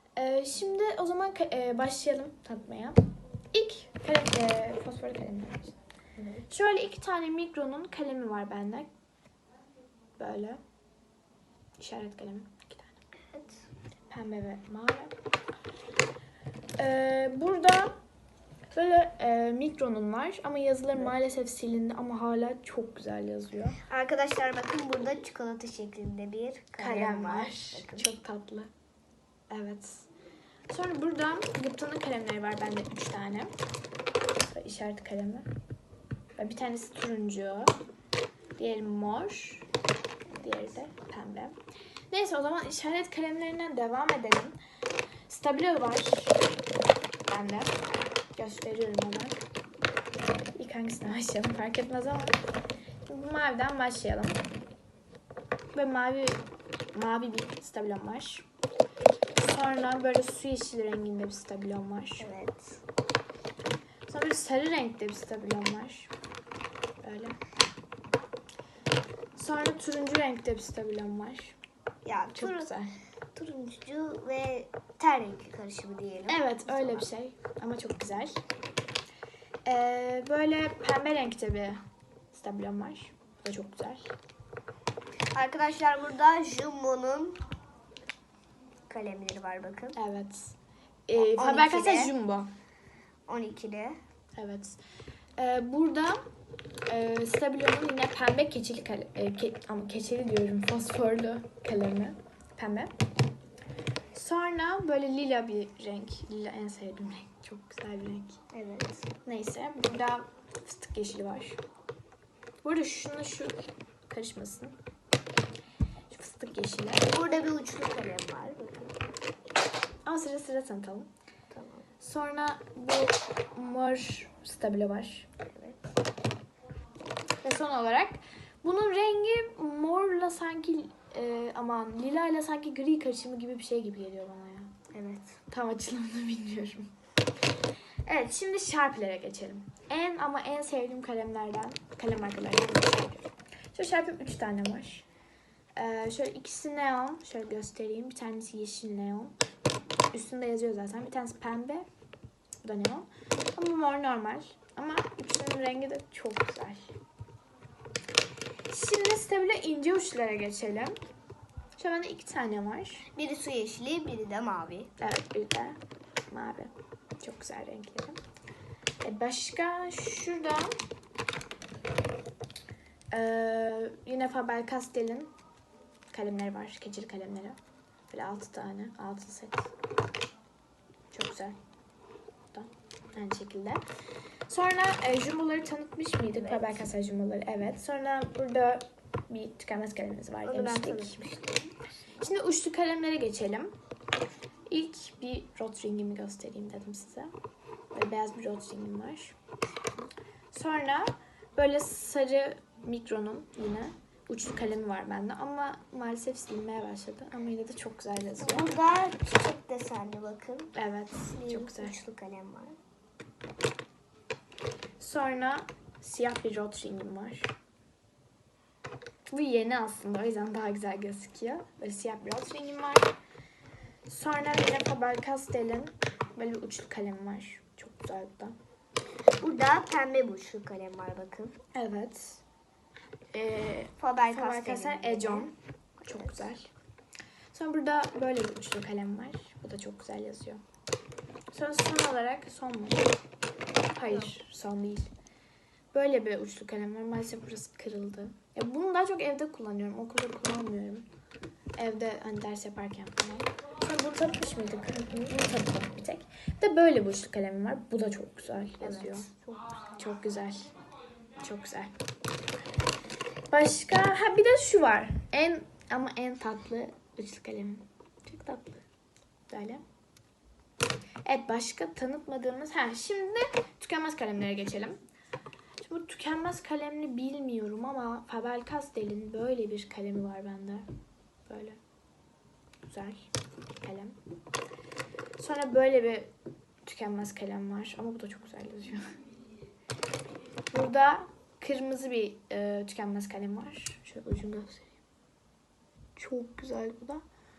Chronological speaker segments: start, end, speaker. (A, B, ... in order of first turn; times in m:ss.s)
0:00.2-0:03.0 A
0:03.5-0:05.8 A
0:06.5-0:08.9 A
0:10.2-0:10.6 A
0:11.8-0:13.0 A
0:13.3-0:13.7 B
0:14.1-0:15.1 A
0:16.8-0:17.9 A
0:18.7-0:23.8 A
0:23.8-0:28.1 B
0:26.8-0:28.7 A
0:29.5-0:30.1 A
0:30.7-0:33.5 A
0:34.5-0:35.5 A
0:36.4-0:37.8 A
0:38.6-0:39.7 A
0:40.4-0:41.6 A
0:42.1-0:44.6 A
0:45.3-0:46.4 A
0:47.3-0:47.8 A
0:48.4-0:49.4 A
0:50.6-0:52.4 A
0:53.1-0:54.4 A
0:55.7-0:58.5 A
0:59.4-1:02.3 A
1:02.2-1:02.8 B
1:04.1-1:06.1 A
1:07.0-1:07.4 A
1:09.4-1:11.6 A
1:12.0-1:12.7 B
1:12.3-1:12.9 A
1:13.4-1:17.1 B
1:16.3-1:18.4 A
1:19.7-1:21.8 A
1:22.3-1:24.1 A
1:25.3-1:27.4 B
1:28.9-1:30.0 B
1:30.0-1:30.6 A
1:31.1-1:32.5 A
1:31.2-1:32.1 B
1:33.3-1:34.0 B
1:34.4-1:34.8 A
1:35.4-1:36.2 A
1:36.9-1:42.9 A
1:44.1-1:48.4 A
1:48.5-1:49.2 B
1:49.2-1:51.6 A
1:52.6-1:54.8 A
1:56.1-1:57.1 A
1:57.1-1:59.0 B
2:00.0-2:01.1 A
2:01.5-2:01.9 B
2:02.0-2:05.3 A
2:05.5-2:05.8 B
2:07.4-2:14.8 A
2:14.9-2:15.4 B
2:15.5-2:16.9 A
2:18.0-2:25.1 A
2:25.8-2:29.4 A
2:30.1-2:31.9 A
2:32.6-2:36.9 A
2:38.7-2:41.0 A
2:41.8-2:43.1 A
2:43.1-2:44.9 B
2:45.0-2:48.2 A
2:49.0-2:50.8 A
2:53.1-2:55.3 A
2:56.1-2:57.6 A
2:58.1-2:59.7 A
3:01.1-3:01.6 A
3:02.5-3:03.8 A
3:04.5-3:11.3 A
3:06.3-3:06.9 B
3:10.4-3:11.8 B
3:12.2-3:13.7 A
3:14.7-3:17.3 A
3:17.9-3:19.4 A
3:20.5-3:28.7 A
3:28.4-3:30.7 B
3:30.7-3:32.0 A
3:31.3-3:32.8 B
3:35.0-3:37.5 A
3:39.3-3:43.1 A
3:44.1-3:48.6 A
3:49.4-3:51.6 B
3:51.7-3:52.4 A
3:53.3-3:55.5 A
3:54.0-3:56.5 B
3:56.0-3:56.7 A
3:57.5-4:00.6 A
4:01.5-4:03.2 A
4:03.9-4:05.1 A
4:04.1-4:04.3 B
4:05.9-4:11.1 A
4:11.8-4:19.3 A
4:18.8-4:20.0 B
4:20.0-4:20.7 A
4:21.4-4:21.9 A
4:23.5-4:28.8 A
4:29.5-4:29.8 A
4:31.2-4:35.0 A
4:35.8-4:40.8 A
4:41.5-4:41.8 A
4:42.9-4:44.2 A
4:45.4-4:46.3 A
4:46.8-4:49.1 A
4:50.7-4:55.0 A
4:56.2-4:57.2 A